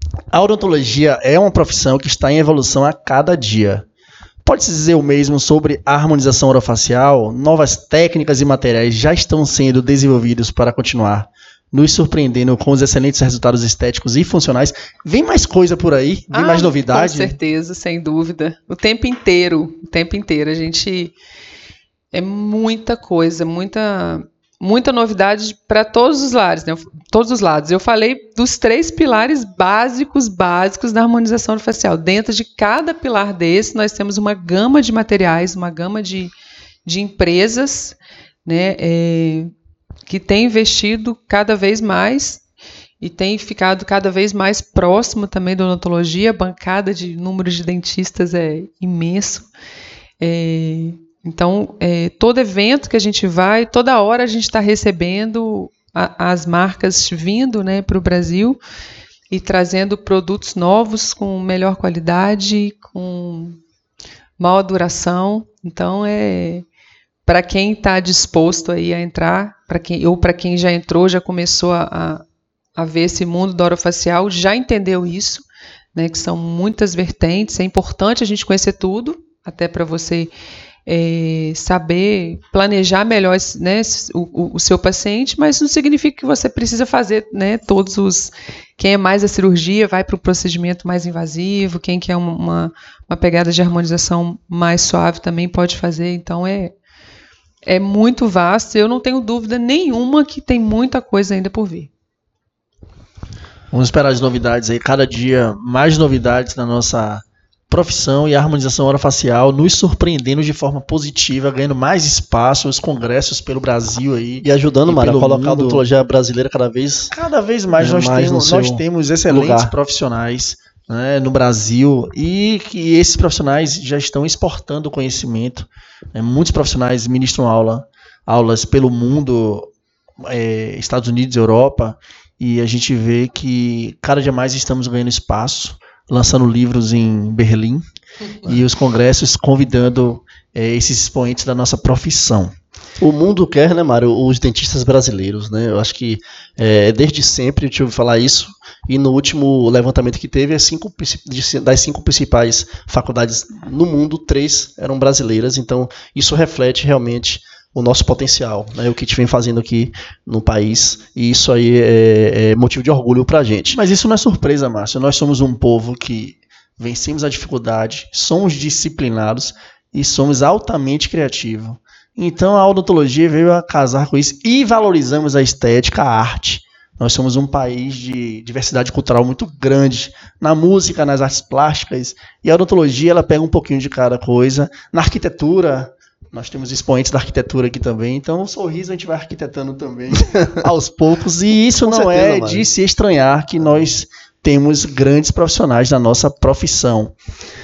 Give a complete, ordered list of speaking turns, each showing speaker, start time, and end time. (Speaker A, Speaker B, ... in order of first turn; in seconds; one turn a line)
Speaker A: 0.3-3.8
Speaker A: 4.4-17.4
Speaker B: 16.3-21.1
Speaker B: 22.1-36.3
Speaker B: 36.9-39.5
Speaker B: 40.1-42.4
Speaker B: 43.0-49.5
Speaker B: 50.2-58.6
Speaker B: 59.3-63.6
Speaker B: 64.4-66.6
Speaker B: 67.2-72.2
Speaker B: 72.8-80.3
Speaker B: 80.9-96.7
Speaker B: 97.7-101.9
Speaker A: 103.7-115.8
Speaker C: 114.4-117.1
Speaker A: 117.1-129.7
Speaker C: 117.8-119.7
Speaker A: 130.2-137.8
Speaker A: 138.4-142.5
Speaker C: 143.0-163.8
Speaker A: 163.7-197.1
Speaker C: 190.3-190.7
Speaker C: 191.5-192.7